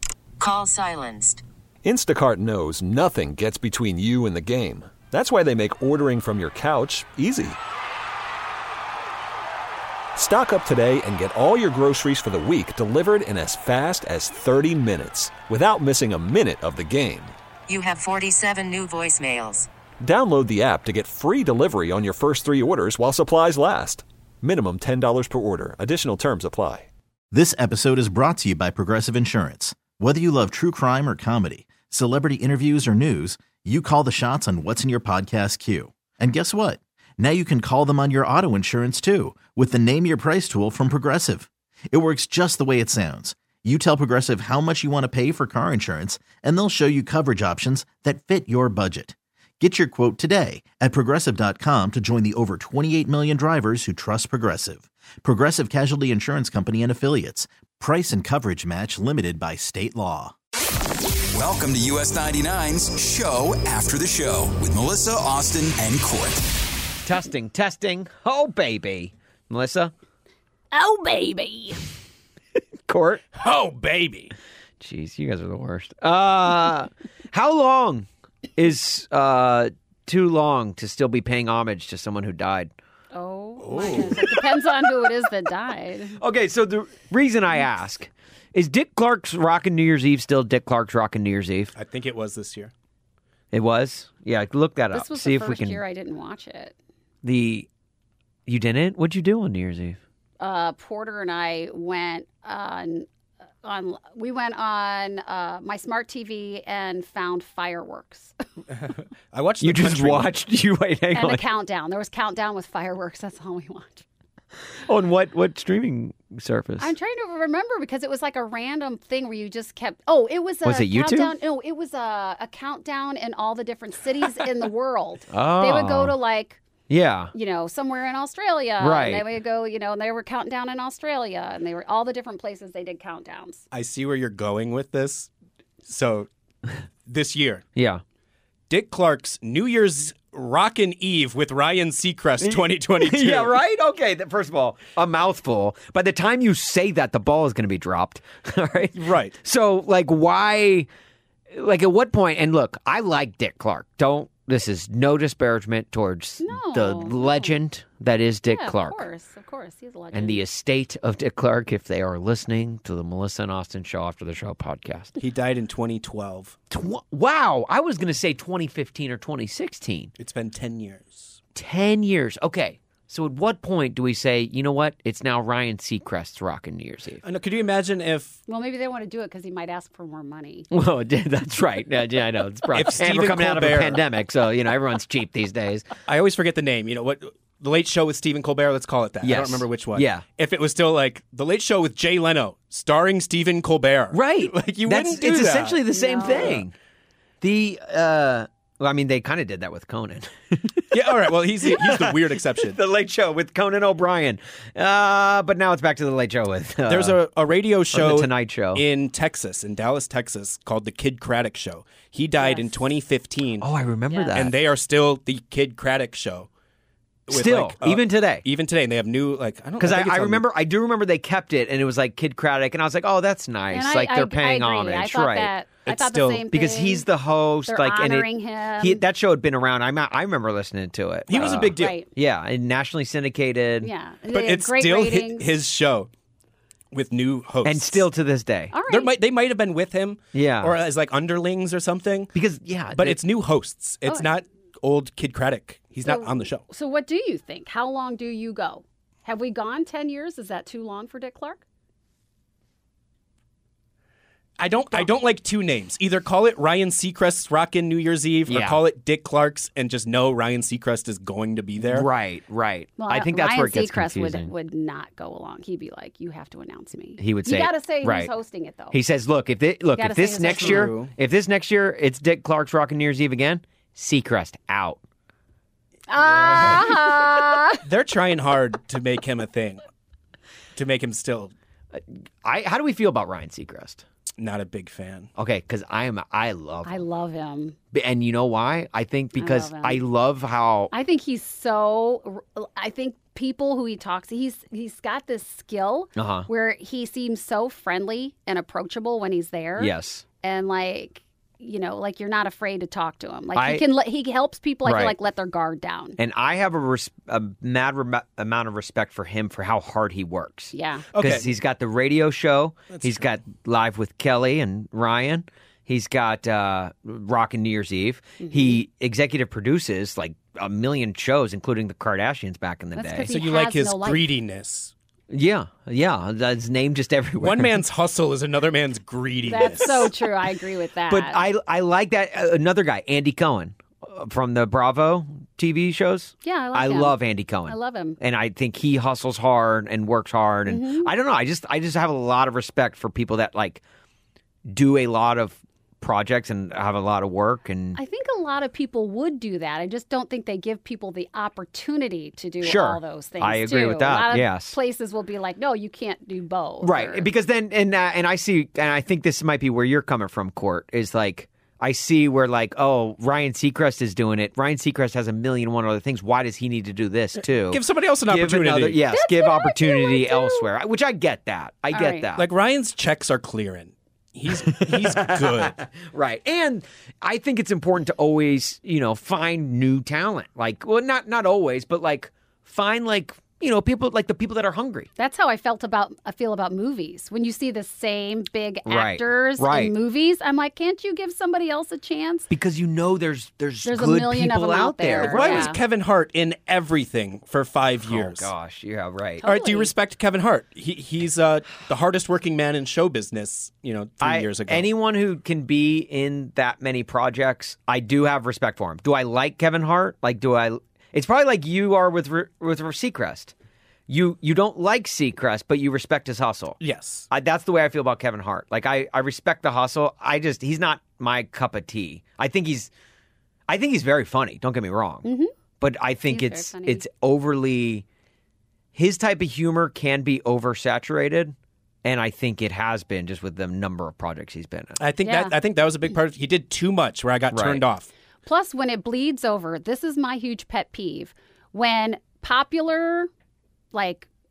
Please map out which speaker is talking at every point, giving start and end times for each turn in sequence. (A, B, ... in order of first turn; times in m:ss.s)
0:00.4-0:01.4 A
0:01.8-0:07.6 B
0:10.2-0:17.3 B
0:17.7-0:19.7 A
0:20.0-0:26.9 B
0:27.3-1:00.3 C
1:01.3-1:06.4 D
1:07.0-1:09.9 E
1:10.7-1:11.8 F
1:12.9-1:13.2 E
1:13.3-1:14.3 G
1:14.8-1:22.7 E
1:23.1-1:26.2 F
1:23.6-1:24.1 G
1:26.2-1:31.7 E
1:31.7-1:32.7 G
1:33.5-1:35.8 E
1:34.9-1:36.8 F
1:37.2-1:37.7 E
1:38.5-1:40.0 E
1:40.4-1:43.1 F
1:43.6-1:48.4 F
1:49.3-1:50.3 G
1:49.6-1:51.4 E
1:51.1-1:54.0 F
1:54.7-1:56.9 E
1:56.8-2:06.6 F
2:00.6-2:01.3 E
2:05.3-2:06.1 E
2:06.9-2:07.3 E
2:07.3-2:13.6 F
2:08.8-2:09.3 E
2:13.7-2:15.3 G
2:15.8-2:16.3 G
2:17.1-2:17.6 G
2:17.8-2:18.0 E
2:18.7-2:23.6 G
2:22.4-2:30.9 E
2:28.9-2:29.4 G
2:31.5-2:39.0 E
2:36.4-2:37.6 F
2:38.4-2:40.4 F
2:40.1-2:45.2 E
2:45.2-2:46.6 G
2:46.7-2:50.1 E
2:50.2-2:51.3 G
2:51.6-2:57.2 E
2:57.2-2:58.4 G
2:58.5-3:00.7 F
3:00.7-3:05.9 E
3:02.7-3:04.0 G
3:06.1-3:16.6 G
3:09.2-3:10.2 E
3:14.1-3:16.7 E
3:15.9-3:16.6 F
3:17.4-3:27.2 E
3:20.9-3:22.8 G
3:26.9-3:33.7 G
3:27.9-3:28.8 E
3:32.4-3:32.8 F
3:33.6-3:34.5 E
3:34.1-3:34.5 F
3:34.3-3:36.5 G
3:37.3-3:38.4 E
3:37.3-3:40.5 G
3:39.8-3:45.5 E
3:43.7-3:47.1 F
3:45.8-3:46.5 G
3:46.5-3:53.9 E
3:47.6-3:49.0 F
3:51.3-3:52.0 G
3:51.3-3:52.1 F
3:53.8-3:55.5 F
3:54.3-3:56.1 G
3:56.9-3:58.1 G
3:57.6-3:58.8 E
3:58.7-3:59.1 F
3:58.8-4:02.3 G
4:00.3-4:00.7 E
4:02.3-4:03.2 E
4:02.9-4:06.6 G
4:04.1-4:04.3 F
4:06.0-4:11.6 F
4:14.6-4:22.1 G
4:18.5-4:18.8 E
4:21.8-4:24.5 E
4:23.0-4:29.0 F
4:27.2-4:28.3 E
4:28.9-4:35.0 E
4:30.0-4:30.9 F
4:30.4-4:31.1 G
4:36.1-4:37.8 F
4:36.2-4:37.1 G
4:37.8-4:39.8 G
4:40.7-4:41.5 G
4:41.9-4:44.0 E
4:44.4-4:45.3 G
4:45.4-4:47.0 E
4:46.8-4:47.8 F
4:47.9-4:50.9 E
4:49.4-4:50.0 F
4:50.9-5:06.2 F
4:56.2-4:56.5 E
4:59.8-5:00.2 E
5:03.5-5:03.9 E
5:04.8-5:05.1 E
5:06.2-5:23.3 E
5:10.7-5:11.1 F
5:11.1-5:11.5 G
5:12.9-5:13.3 G
5:18.4-5:18.8 F
5:23.0-5:24.3 F
5:23.2-5:24.9 G
5:25.3-5:27.8 E
5:27.4-5:30.1 G
5:29.5-5:31.4 F
5:31.1-5:43.8 E
5:36.4-5:38.2 F
5:40.6-5:41.1 F
5:44.7-5:48.0 E
5:47.9-5:57.3 F
5:52.6-5:54.8 E
5:56.8-6:12.4 E
6:07.5-6:09.0 G
6:09.1-6:10.6 F
6:11.9-6:12.3 F
6:12.3-6:15.7 G
6:14.7-6:25.1 E
6:25.2-6:32.5 F
6:28.8-6:29.9 E
6:32.5-6:35.7 E
6:33.8-6:35.8 F
6:35.2-6:38.5 G
6:38.0-6:39.5 E
6:39.4-6:39.9 F
6:39.4-6:44.9 G
6:44.2-6:53.5 E
6:54.1-6:56.8 E
6:56.8-6:57.2 G
6:57.3-7:02.9 E
7:03.7-7:05.2 E
7:05.2-7:05.5 F
7:05.8-7:08.0 E
7:06.2-7:07.0 F
7:08.9-7:15.0 E
7:15.0-7:18.1 G
7:15.2-7:15.5 F
7:17.5-7:17.8 E
7:18.4-7:23.3 F
7:23.9-7:24.3 F